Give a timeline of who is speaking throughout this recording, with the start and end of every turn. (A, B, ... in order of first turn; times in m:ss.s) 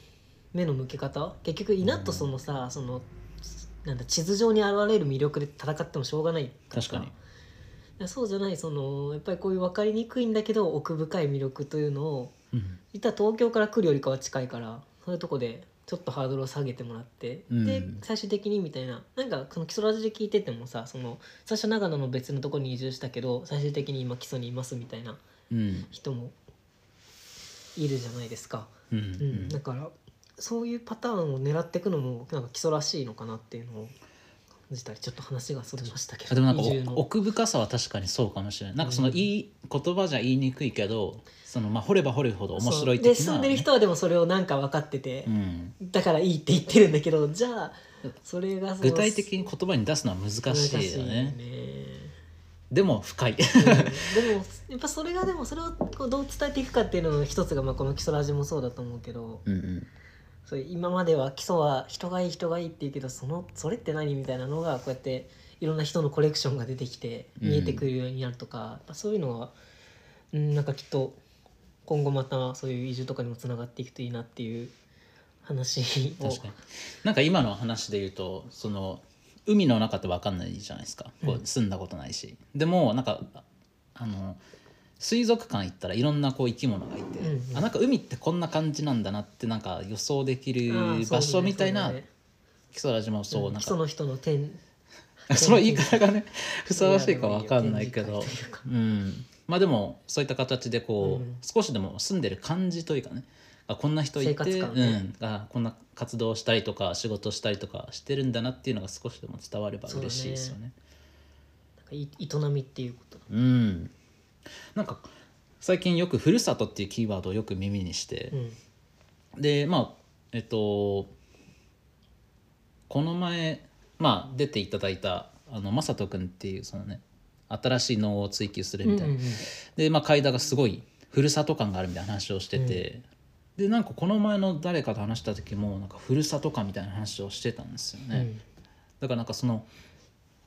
0:00.5-0:03.1 A
0:01.8-0:02.3 B
0:03.8-0:07.1 A
0:06.7-0:07.1 B
0:08.0-0:12.3 A
0:12.5-0:12.8 B
0:12.9-0:25.2 A
0:17.5-0:18.0 B
0:25.5-0:25.9 B
0:25.9-0:26.3 A
0:27.8-0:33.9 A
0:28.9-0:29.6 B
0:34.7-0:37.0 A
0:36.3-0:43.7 B
0:38.8-0:39.3 A
0:42.6-0:49.3 A
0:45.3-0:45.8 B
0:48.8-0:51.4 B
0:50.5-0:52.1 A
0:52.7-0:54.1 B
0:53.6-0:59.4 A
0:59.4-0:59.9 B
1:00.4-1:09.5 A
1:07.4-1:07.9 B
1:10.3-1:11.2 A
1:11.9-1:14.7 A
1:15.4-1:16.5 A
1:16.2-1:24.4 B
1:25.0-1:32.0 B
1:27.2-1:27.7 A
1:30.7-1:32.1 A
1:32.7-1:33.8 B
1:33.3-1:34.6 A
1:35.2-1:36.0 A
1:35.3-1:50.7 B
1:36.7-1:38.6 A
1:41.0-1:41.4 A
1:44.2-1:45.0 A
1:49.9-1:50.6 A
1:51.8-1:53.3 A
1:53.3-1:53.9 B
1:54.7-1:55.1 B
1:55.6-1:58.3 B
1:58.3-1:58.6 A
1:59.4-2:01.1 B
2:02.9-2:13.0 B
2:08.8-2:09.4 A
2:12.5-2:12.8 A
2:13.6-2:18.3 B
2:18.1-2:18.4 A
2:19.0-2:19.7 B